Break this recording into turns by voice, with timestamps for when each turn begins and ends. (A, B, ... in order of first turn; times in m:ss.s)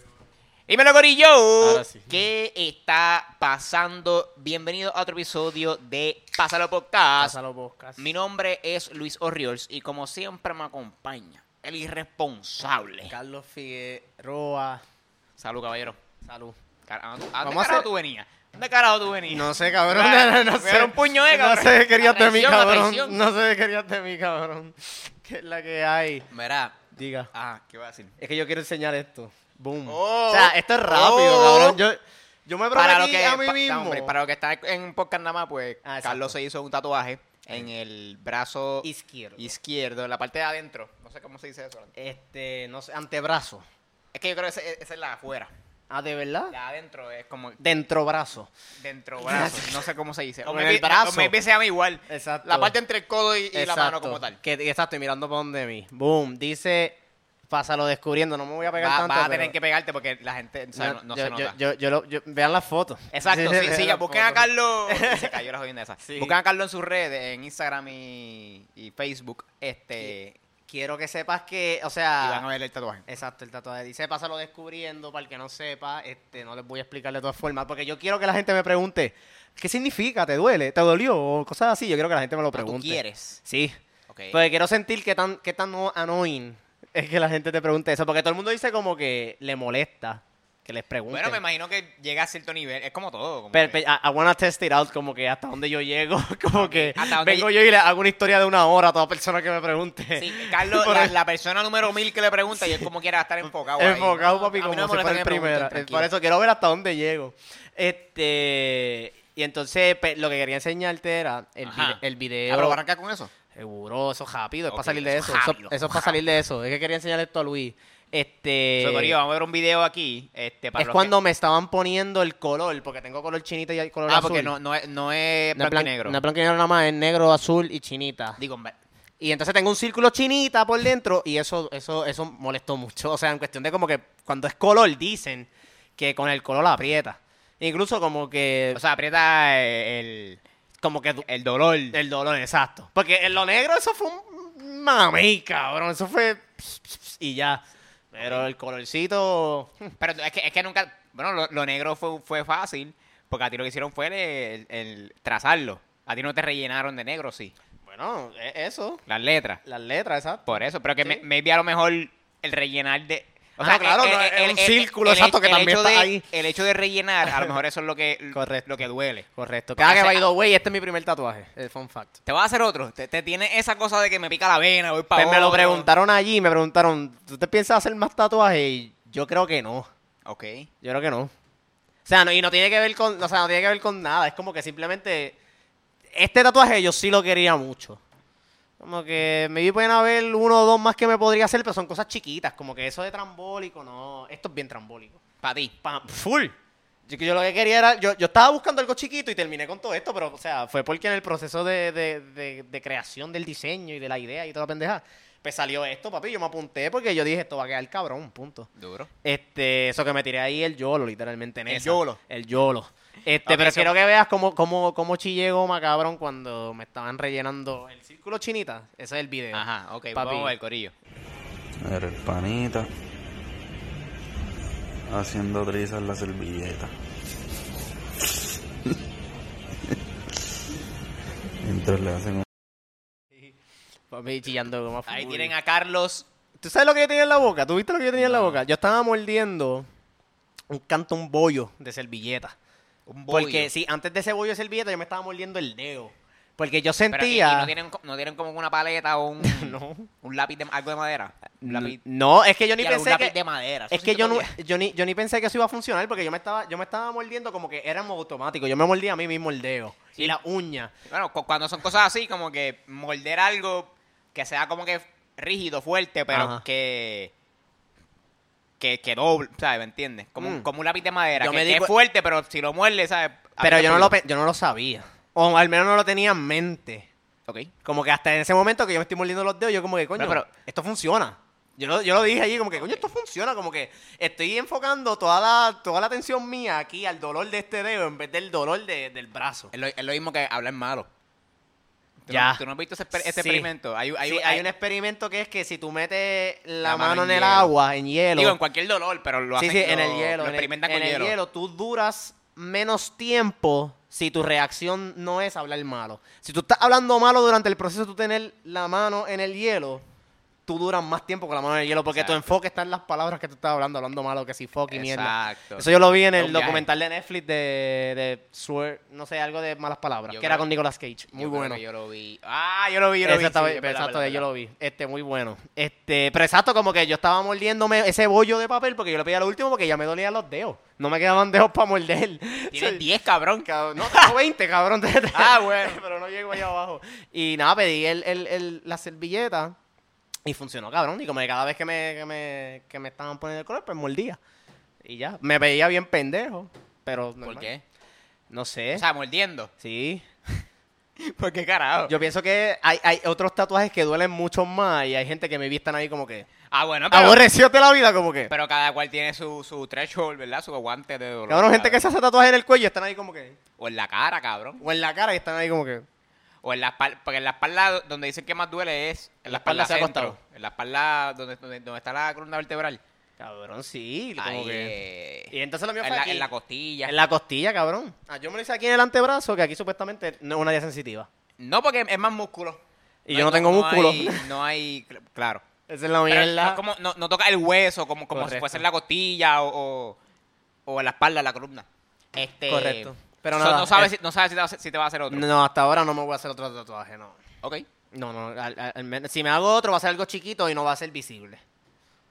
0:00.7-0:07.4 A
0:01.6-0:02.2 B
0:07.2-0:08.1 B
0:08.0-0:13.1 A
0:13.1-0:14.8 B
0:15.4-0:16.0 A
0:16.2-0:16.6 B
0:16.8-0:23.2 A
0:17.4-0:17.9 B
0:19.3-0:26.3 B
0:26.3-0:26.8 A
0:26.9-0:27.3 B
0:27.3-0:28.1 A
0:28.2-0:34.1 B
0:29.9-0:31.8 A
0:32.7-0:41.9 A
0:35.8-0:36.3 B
0:38.8-0:39.5 B
0:42.0-0:43.6 B
0:44.1-0:45.5 A
0:45.9-0:46.5 B
0:46.5-0:47.6 A
0:47.6-0:48.5 B
0:48.8-0:54.4 A
0:49.2-0:49.9 B
0:50.4-0:51.4 B
0:52.1-0:52.7 B
0:53.5-0:59.5 B
0:58.8-1:01.6 A
1:00.7-1:05.4 B
1:03.1-1:10.4 A
1:06.0-1:06.4 B
1:10.7-1:12.4 B
1:12.2-1:13.0 A
1:13.1-1:23.8 B
1:22.5-1:23.4 A
1:24.1-1:24.4 A
1:24.3-1:31.4 B
1:31.1-1:33.8 A
1:33.5-1:41.1 B
1:36.5-1:37.5 A
1:40.1-1:46.1 A
1:42.6-1:42.8 B
1:43.8-1:52.8 B
1:51.6-1:53.3 A
1:53.5-1:59.2 B
1:54.7-1:56.2 A
1:58.8-2:01.1 A
2:00.8-2:04.5 B
2:04.1-2:06.2 A
2:05.6-2:08.4 B
2:08.4-2:08.8 A
2:09.2-2:18.8 B
2:18.7-2:20.4 A
2:20.8-2:21.2 B
2:21.2-2:22.0 A
2:21.9-2:29.9 B
2:28.2-2:28.5 A
2:30.0-2:37.5 A
2:37.8-2:39.0 B
2:39.1-2:39.6 A
2:39.6-2:41.2 B
2:40.5-2:49.2 A
2:43.6-2:46.2 B
2:47.3-2:47.5 B
2:48.3-2:48.7 B
2:49.3-2:52.2 B
2:49.8-2:50.2 A
2:52.2-2:55.9 A
2:55.1-2:59.9 B
3:00.2-3:00.7 A
3:00.8-3:01.3 B
3:02.0-3:05.4 B
3:06.1-3:08.0 B
3:08.8-3:15.2 B
3:15.4-3:15.7 A
3:15.8-3:16.5 B
3:17.1-3:28.7 B
3:28.8-3:29.1 A
3:29.2-3:39.6 B
3:31.7-3:32.2 A
3:33.4-3:33.9 A
3:39.5-3:40.9 A
3:40.1-3:40.5 B
3:41.8-3:42.9 C
3:45.1-3:46.9 C
3:51.6-3:52.4 C
3:54.1-3:55.5 B
3:55.1-3:56.3 A
3:56.6-3:59.9 B
3:58.2-3:58.6 A
4:00.7-4:02.6 B
4:03.1-4:03.7 A
4:03.3-4:07.7 B
4:07.1-4:12.0 A
4:09.4-4:10.1 B
4:11.6-4:13.4 B
4:12.8-4:14.5 A
4:13.9-4:20.9 B
4:21.1-4:27.3 A
4:26.3-4:26.6 B
4:28.8-4:34.2 A
4:30.4-4:30.7 B
4:31.4-4:31.9 B
4:33.6-4:37.1 B
4:37.8-4:49.7 B
4:40.2-4:40.5 A
4:42.8-4:43.0 A
4:49.7-4:51.1 A
4:52.2-4:54.7 A
4:52.3-4:52.6 B
4:53.1-4:53.7 B
4:54.2-4:58.6 B
4:56.8-4:57.7 A
4:58.3-5:01.3 A
4:59.6-5:10.0 B
5:10.7-5:21.8 B
5:12.1-5:12.4 A
5:14.9-5:16.9 A
5:20.3-5:20.7 A
5:21.3-5:24.4 A
5:23.2-5:33.0 B
5:32.7-5:34.3 A
5:33.6-5:39.8 B
5:35.3-5:36.0 A
5:40.4-5:44.4 B
5:45.0-5:47.7 B
5:47.4-5:47.8 A
5:48.5-5:49.0 B
5:48.9-5:49.7 A
5:49.8-5:50.2 B
5:51.2-5:52.2 A
5:52.1-5:56.5 B
5:56.7-5:57.4 A
5:57.1-5:58.5 B
5:58.5-6:02.0 A
6:01.5-6:03.6 B
6:03.8-6:04.8 A
6:04.8-6:06.0 B
6:06.6-6:13.0 A
6:09.4-6:10.4 B
6:13.4-6:15.0 B
6:14.4-6:17.2 A
6:15.5-6:16.5 B
6:17.0-6:21.3 B
6:21.6-6:25.6 A
6:23.2-6:24.5 B
6:25.9-6:26.8 B
6:26.3-6:30.2 A
6:28.3-6:28.8 B
6:30.9-6:35.5 A
6:32.7-6:34.1 B
6:35.3-6:37.4 B
6:38.1-6:41.6 B